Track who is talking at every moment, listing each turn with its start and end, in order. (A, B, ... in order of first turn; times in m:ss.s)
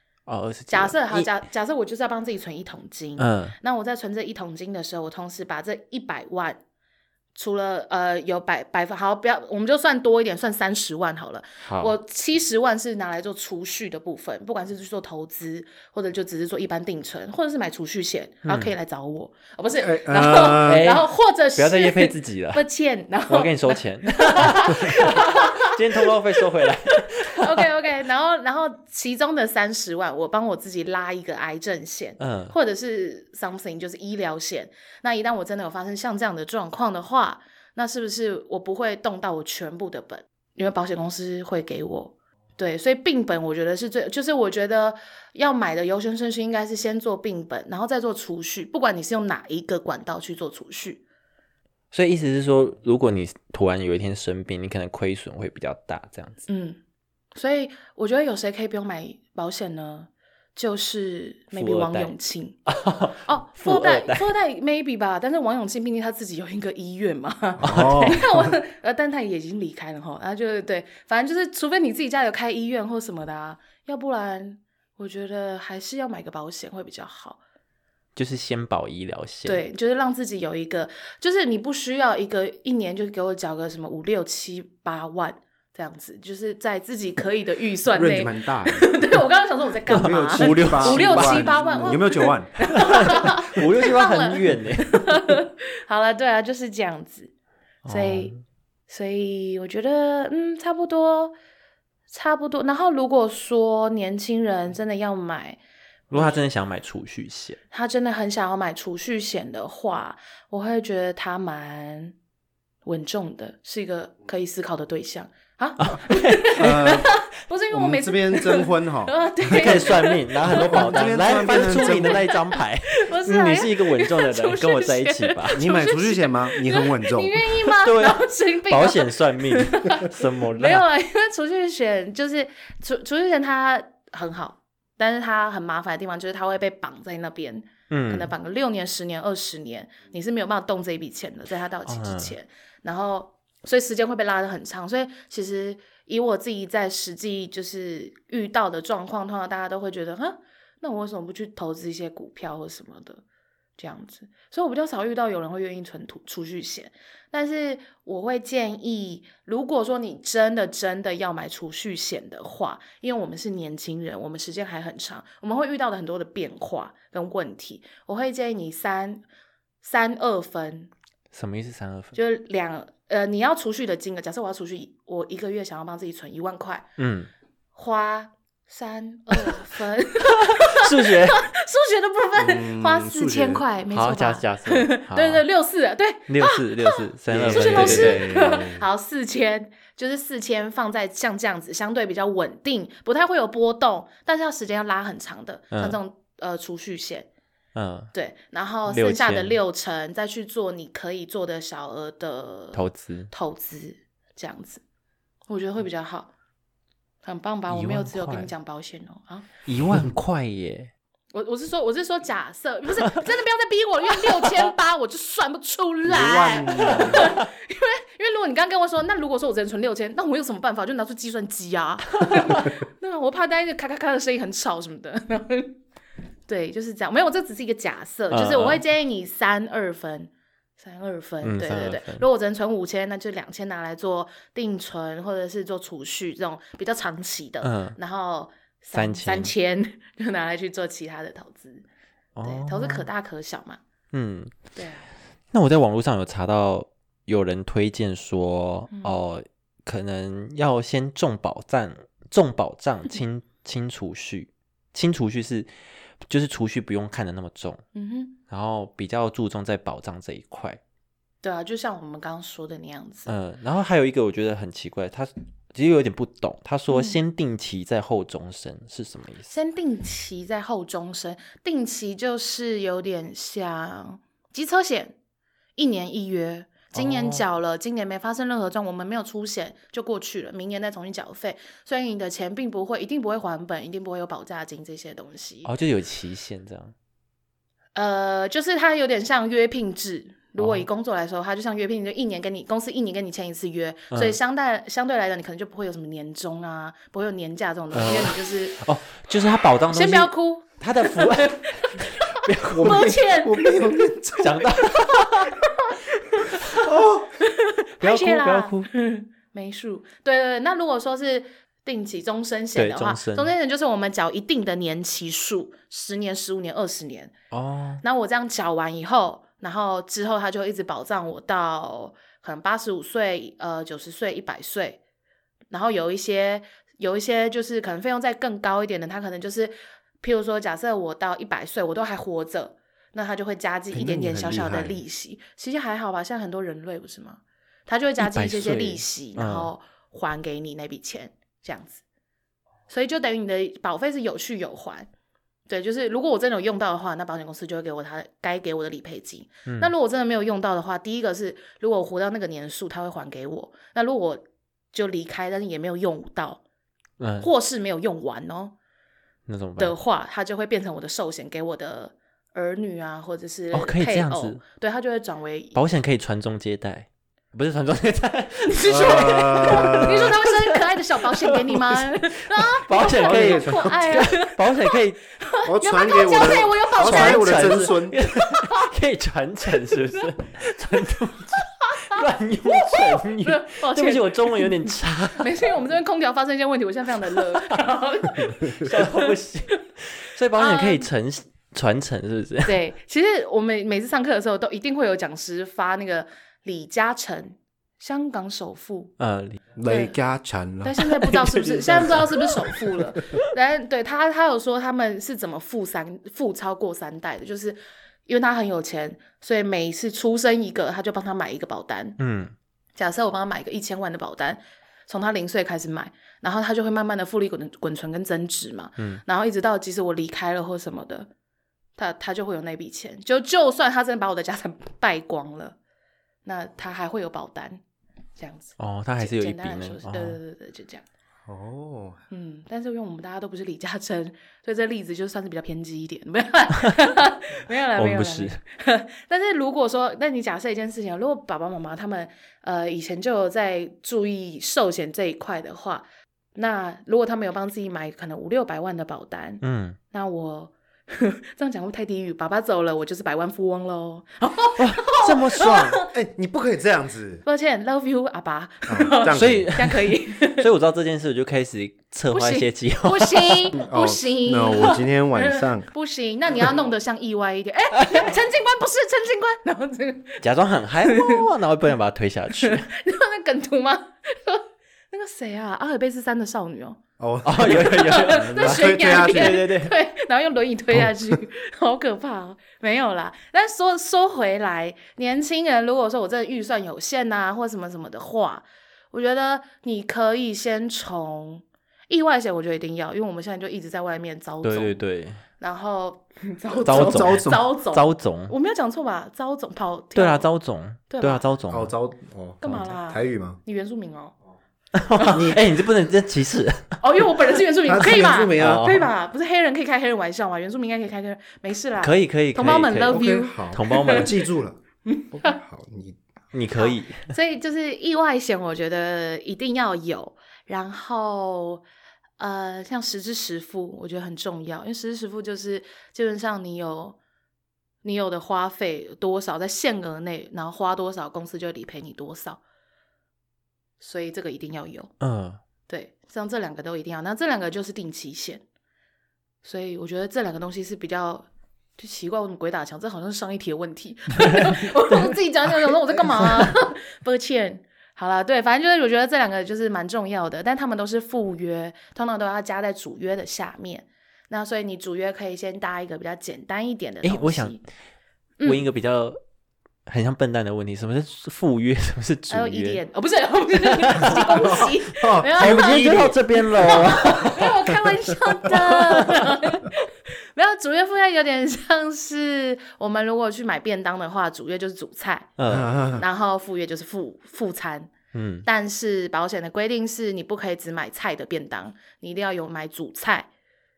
0:00.3-0:01.3 A
0:00.7-0:06.6 B
0:03.2-0:03.6 A
0:07.3-0:51.0 B
0:11.6-0:11.9 A
0:18.4-0:18.7 A
0:19.8-0:20.9 C
0:20.6-0:22.6 A
0:23.3-0:27.7 A
0:32.2-0:32.5 A
0:51.9-0:56.4 A
0:56.5-0:56.8 B
0:57.3-1:02.6 B
1:01.5-1:02.1 A
1:02.7-1:04.3 A
1:03.3-1:17.4 B
1:07.6-1:08.5 C
1:07.6-1:08.2 A
1:18.2-1:19.6 A
1:19.4-1:37.3 B
1:27.9-1:29.0 C
1:29.9-1:32.6 C
1:29.9-1:31.5 A
1:32.6-1:35.3 A
1:37.8-1:38.4 A
1:37.9-1:38.3 B
1:38.9-1:41.3 B
1:42.1-1:45.6 B
1:46.1-1:46.4 B
1:46.1-1:47.6 A
1:47.7-1:52.1 B
1:52.8-2:33.2 B
1:55.8-1:56.9 A
1:56.6-1:57.1 C
1:57.7-1:59.9 C
1:59.5-2:05.6 A
2:00.5-2:02.2 C
2:05.5-2:07.4 C
2:07.6-2:10.8 A
2:17.9-2:18.3 A
2:21.9-2:22.3 A
2:33.8-2:49.2 B
2:49.8-2:50.9 B
2:51.3-2:52.2 A
2:52.2-2:56.9 B
2:57.0-2:57.3 A
2:57.7-3:17.3 B
3:00.2-3:01.4 A
3:02.3-3:03.6 C
3:03.9-3:05.4 A
3:06.3-3:08.3 A
3:07.3-3:08.8 C
3:15.7-3:16.0 A
3:17.7-3:18.1 A
3:18.1-3:24.8 B
3:18.9-3:19.6 A
3:22.7-3:23.3 A
3:25.5-3:26.3 B
3:27.2-3:29.5 B
3:27.7-3:28.5 A
3:29.6-3:30.9 A
3:31.3-3:45.8 B
3:34.4-3:34.7 A
3:36.0-3:37.3 C
3:36.8-3:37.4 A
3:46.5-4:01.8 B
3:48.3-3:48.8 A
3:51.4-3:52.3 A
3:57.6-3:58.0 A
3:58.9-3:59.5 A
4:02.4-4:03.1 A
4:02.4-4:03.8 B
4:04.1-4:04.7 A
4:04.7-4:05.1 B
4:05.5-4:15.7 A
4:08.9-4:09.2 B
4:16.2-4:17.8 A
4:17.9-4:18.4 B
4:18.5-4:20.8 A
4:21.4-4:23.3 B
4:23.2-4:29.5 A
4:26.9-4:27.2 B
4:29.5-4:35.1 B
4:35.8-4:45.7 B
4:36.9-4:37.4 A
4:45.6-4:46.9 A
4:47.9-4:58.8 B
4:50.6-4:50.8 A
4:57.9-5:03.1 A
4:59.9-5:04.0 B
5:02.7-5:04.7 C
5:04.4-5:05.6 A
5:05.0-5:06.8 B
5:06.8-5:07.3 C
5:07.4-5:17.3 B
5:08.0-5:08.9 A
5:12.7-5:13.5 A
5:17.5-5:18.0 A
5:18.0-5:25.0 B
5:25.7-5:42.0 B
5:33.9-5:35.0 C
5:38.2-5:39.7 A
5:42.9-5:45.1 B
5:45.7-5:56.6 B
5:49.7-5:49.9 A
5:57.2-5:57.5 A
5:57.4-5:58.7 B
5:59.5-5:59.9 A
5:59.8-6:05.8 B
6:03.7-6:04.6 A
6:05.7-6:15.2 A
6:08.7-6:17.8 B
6:08.9-6:10.4 C
6:13.1-6:14.0 C
6:15.6-6:18.2 C
6:17.0-6:25.7 A
6:18.4-6:18.9 B
6:21.6-6:29.3 B
6:27.3-6:32.8 A
6:30.6-6:31.1 B
6:32.6-6:39.1 B
6:39.2-6:39.6 A
6:39.8-6:41.0 C
6:39.8-6:40.2 B
6:40.8-6:52.2 B
6:41.0-6:43.5 A
6:52.2-6:52.5 A
6:53.0-7:01.3 B
6:59.0-6:59.2 A
7:02.0-7:05.8 B
7:06.4-7:07.8 B
7:08.4-7:11.0 B
7:08.8-7:10.4 A
7:11.5-7:12.2 C
7:12.3-7:36.1 B
7:17.9-7:18.6 A
7:29.6-7:30.0 A
7:34.8-7:36.0 A
7:36.0-7:37.4 C
7:37.4-7:40.7 B
7:38.9-7:39.7 C
7:39.3-7:43.7 A
7:42.3-7:50.4 B
7:43.8-7:45.9 C
7:48.0-7:48.3 A
7:50.4-7:52.9 A
7:51.0-7:51.5 B
7:52.6-7:57.0 B
7:57.2-7:59.6 C
7:57.4-7:59.9 A
7:57.6-8:15.0 B
8:00.9-8:01.4 C
8:14.6-8:15.4 A
8:15.6-8:20.5 B
8:16.8-8:17.6 C
8:16.8-8:18.5 A
8:20.1-8:21.9 A
8:21.1-8:21.5 B
8:21.7-8:23.6 C
8:22.6-8:24.3 B
8:24.9-8:27.0 A
8:25.2-8:25.5 B
8:25.3-8:25.6 C
8:27.0-8:34.3 B
8:27.8-8:29.0 C
8:28.6-8:29.1 A
8:32.0-8:34.3 A
8:32.9-8:34.8 C
8:35.0-8:35.6 B
8:35.3-8:36.2 C
8:36.5-8:37.3 A
8:36.8-8:41.8 B
8:42.4-8:47.2 B
8:48.0-8:52.6 B
8:54.0-8:55.1 B
8:55.2-8:55.6 A
8:55.9-8:58.6 B
8:59.6-9:01.5 B
9:02.0-9:17.8 B
9:04.5-9:05.3 A
9:05.8-9:06.7 A
9:17.2-9:17.8 A
9:18.6-9:18.8 B
9:18.6-9:19.4 A
9:20.0-9:23.0 A
9:22.5-9:35.6 B
9:23.8-9:24.9 A
9:24.2-9:27.3 C
9:25.5-9:28.0 A
9:28.6-9:29.6 A
9:35.6-9:35.9 A
9:35.7-9:36.2 C
9:36.1-9:38.1 B
9:38.3-9:38.7 A
9:38.6-9:43.5 B